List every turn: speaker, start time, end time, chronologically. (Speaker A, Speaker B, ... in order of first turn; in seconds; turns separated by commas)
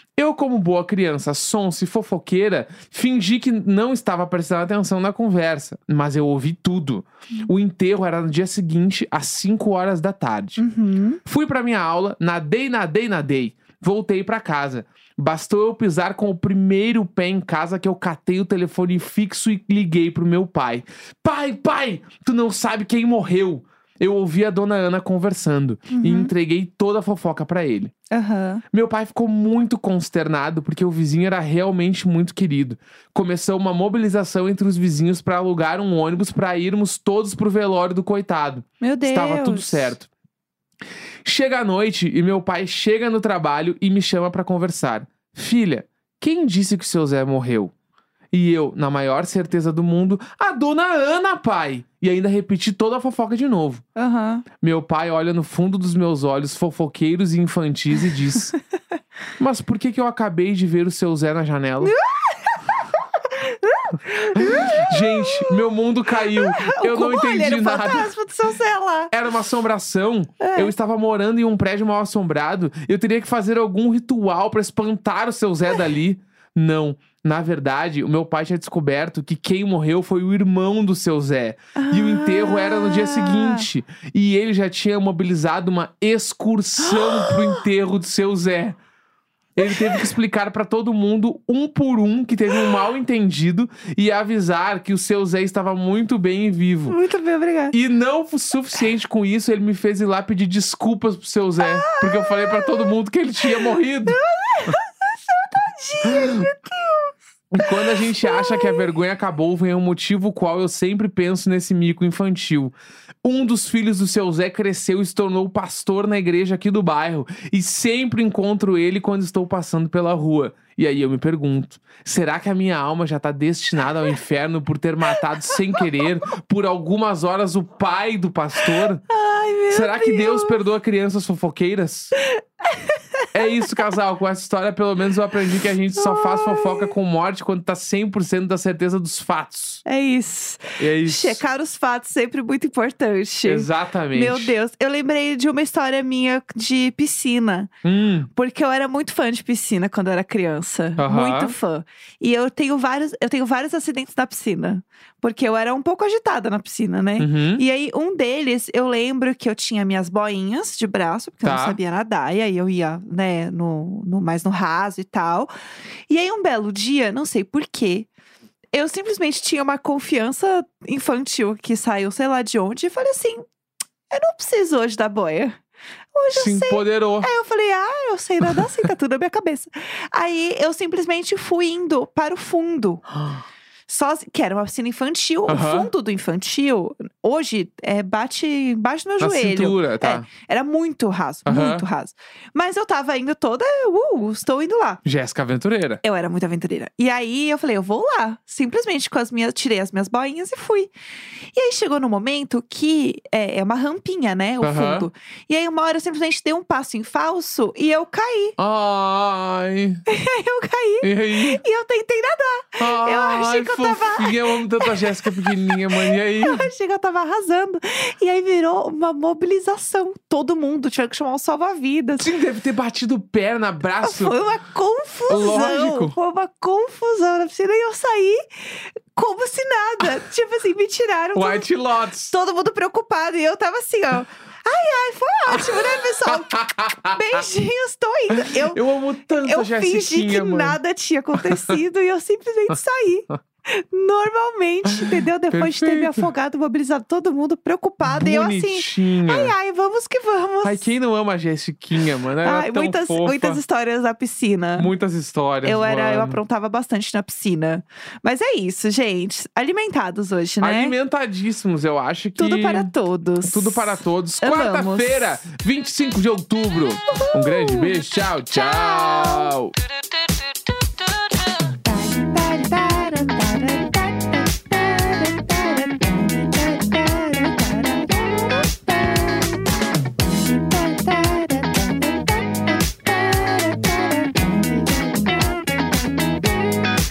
Speaker A: 0.2-10.6, Speaker B: 10.6-11.2, Speaker A: 11.2-27.9, Speaker B: 25.9-26.3, Speaker B: 28.1-28.6, Speaker A: 28.7-40.1, Speaker B: 38.8-39.9, Speaker A: 41.2-47.7, Speaker A: 48.3-53.8, Speaker B: 54.0-54.5, Speaker A: 54.6-58.5, Speaker A: 59.4-61.9, Speaker B: 61.8-69.1, Speaker A: 64.3-68.1, Speaker A: 69.1-88.8, Speaker B: 70.4-70.7, Speaker B: 81.8-83.7, Speaker B: 86.8-87.6, Speaker A: 89.5-97.0, Speaker B: 89.6-90.1, Speaker B: 96.9-97.8, Speaker A: 97.7-104.7, Speaker B: 101.6-102.9, Speaker B: 103.5-108.8, Speaker A: 106.1-106.5, Speaker A: 107.5-129.0, Speaker B: 128.7-130.6, Speaker A: 129.7-132.1, Speaker B: 132.2-133.8, Speaker A: 133.3-139.8, Speaker B: 135.9-136.9, Speaker B: 139.8-147.7, Speaker A: 140.8-141.4, Speaker A: 143.4-144.5, Speaker A: 147.8-148.3, Speaker B: 148.3-165.5, Speaker A: 151.0-151.6, Speaker A: 157.2-157.6, Speaker A: 161.4-161.8, Speaker B: 166.1-168.1, Speaker B: 168.7-173.4, Speaker B: 174.1-175.6, Speaker B: 176.1-183.0, Speaker A: 176.3-177.3, Speaker A: 178.5-178.9, Speaker A: 183.2-183.4, Speaker B: 183.9-195.0, Speaker A: 185.5-185.9, Speaker A: 189.2-190.3, Speaker A: 191.4-191.8, Speaker A: 195.0-196.0, Speaker B: 196.0-200.9, Speaker B: 201.5-208.6, Speaker A: 204.6-205.1, Speaker A: 208.6-210.0, Speaker B: 210.1-222.3, Speaker A: 211.0-211.6, Speaker A: 212.8-216.7, Speaker A: 222.2-224.4, Speaker B: 224.0-228.4, Speaker A: 225.3-226.2, Speaker B: 229.1-231.7, Speaker A: 231.3-232.3, Speaker B: 232.3-238.8, Speaker A: 235.5-237.4, Speaker A: 238.4-240.8, Speaker B: 239.4-250.9, Speaker A: 241.3-241.7, Speaker A: 244.9-246.2, Speaker A: 248.0-249.5, Speaker A: 250.6-253.6, Speaker B: 252.4-254.9, Speaker A: 254.8-256.4, Speaker B: 255.6-260.9, Speaker A: 260.6-262.9, Speaker B: 262.4-265.4, Speaker A: 263.4-269.7, Speaker B: 267.1-267.9, Speaker B: 268.5-269.6, Speaker B: 271.8-279.7, Speaker B: 280.5-286.7